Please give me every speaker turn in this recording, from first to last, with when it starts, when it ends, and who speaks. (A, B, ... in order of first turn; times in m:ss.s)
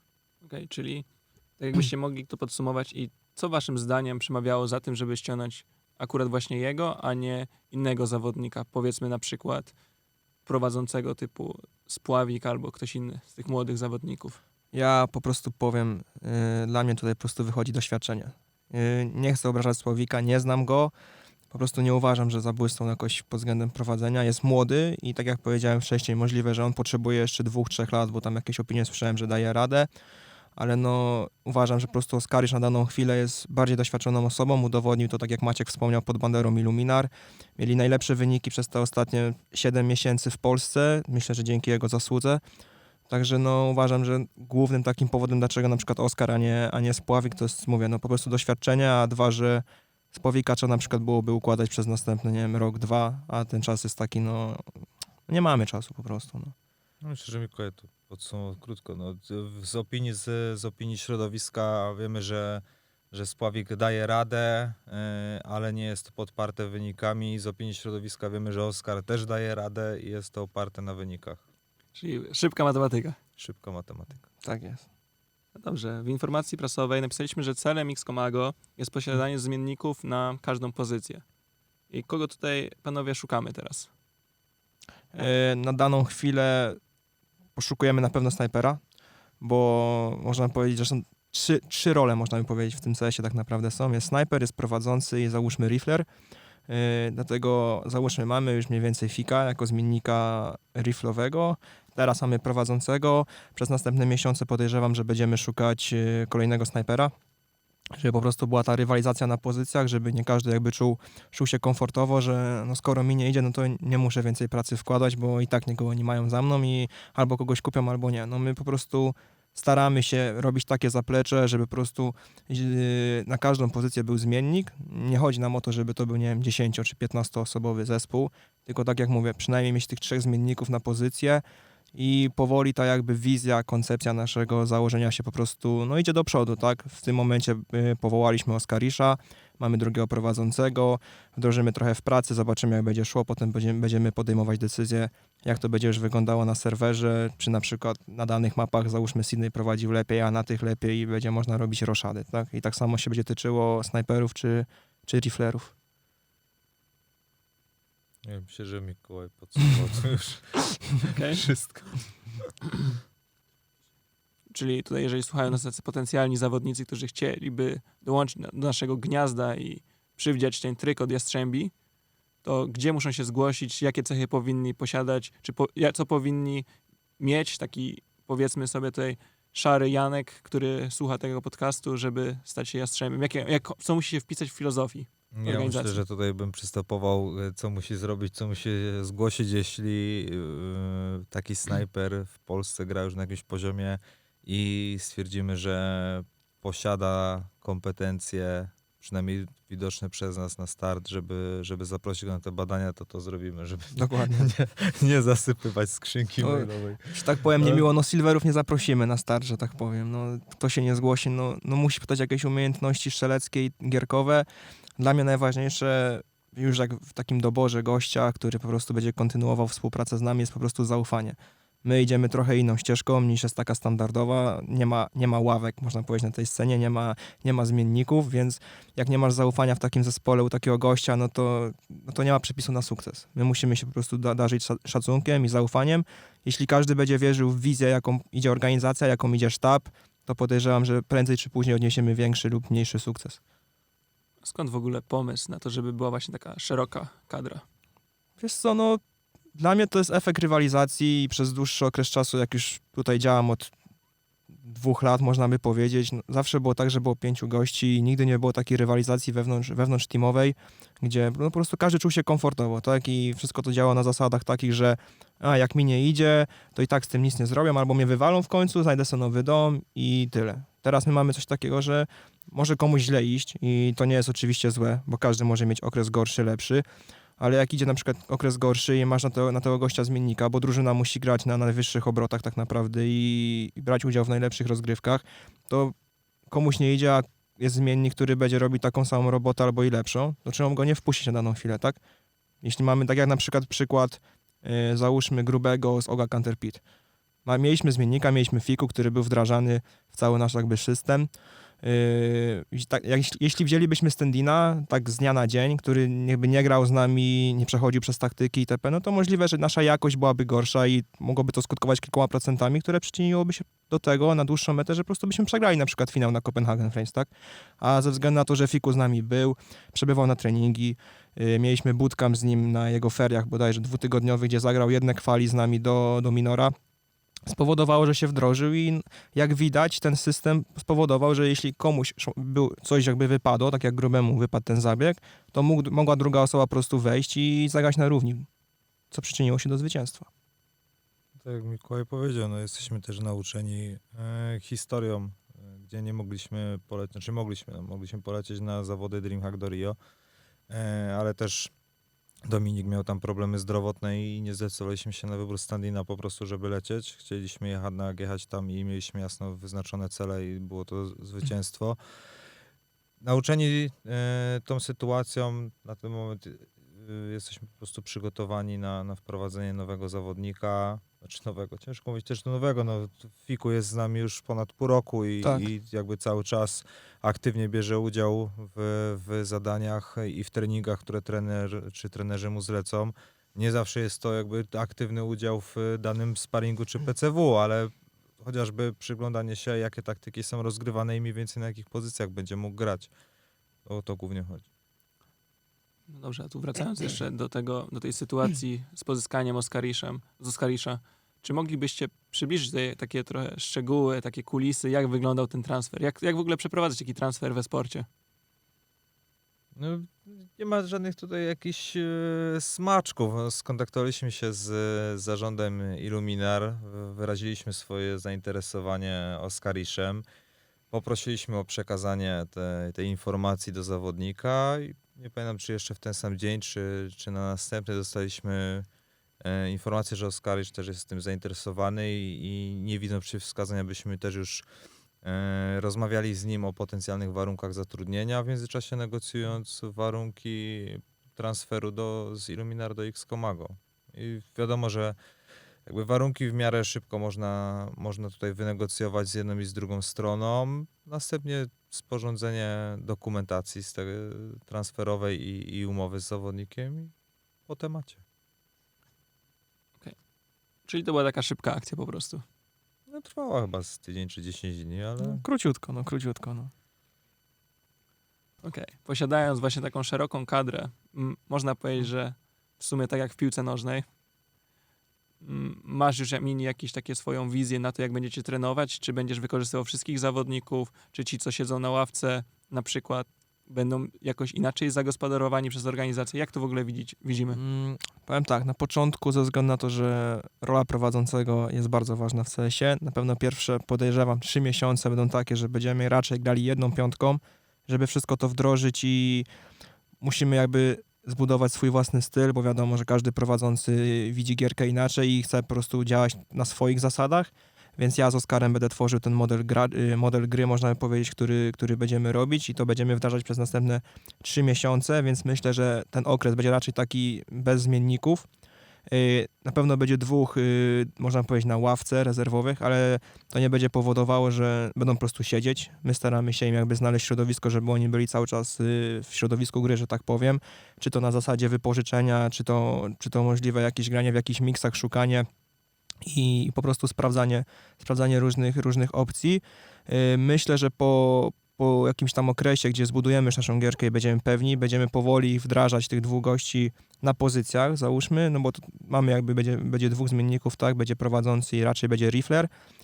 0:00.4-0:09.7 A
0:10.5-0:14.4 A
0:14.7-0:20.9 B
0:21.5-0:29.9 B
0:30.6-0:42.4 B
0:43.1-0:54.6 B
0:55.3-0:56.6 B
0:57.0-1:11.4 C
1:12.0-1:13.2 A
1:13.4-1:14.3 C
1:14.4-1:14.9 B
1:15.6-1:21.2 A
1:21.9-1:23.9 A
1:25.1-1:26.8 B
1:27.6-1:28.8 B
1:29.4-1:36.1 B
1:36.7-1:47.1 B
1:48.0-2:11.4 B
2:12.0-2:35.7 B
2:38.2-2:42.5 C
2:41.0-2:41.4 A
2:44.5-2:51.7 A
2:52.4-2:56.7 A
2:57.2-3:06.0 A
3:05.3-3:27.9 C
3:23.9-3:24.5 B
3:26.4-3:34.5 B
3:35.0-4:03.4 B
4:04.4-4:07.6 A
4:08.4-4:09.0 B
4:09.6-4:13.7 B
4:14.6-4:36.8 B
4:37.4-4:45.9 B
4:46.5-4:52.0 B
4:52.6-4:56.8 B
4:57.5-5:01.3 B
5:01.8-5:26.7 B
5:27.5-5:38.5 B
5:39.1-5:40.3 B
5:41.4-5:50.0 C
5:50.7-5:51.7 C
5:52.5-6:02.0 C
6:03.2-6:33.1 C
6:15.4-6:15.7 B
6:33.9-6:34.7 C
6:36.1-6:48.1 A
6:49.8-7:00.2 C
7:00.9-7:08.9 C
7:09.4-7:14.6 C
7:15.2-7:25.2 C
7:25.9-7:37.1 C
7:37.7-7:38.2 C
7:40.9-7:42.4 A
7:43.1-7:45.4 C
7:45.2-7:46.7 B
7:48.6-7:54.1 A
7:55.4-8:07.6 A
8:07.5-8:19.5 B
8:20.2-8:38.5 B
8:39.1-8:55.5 B
8:56.2-9:12.7 B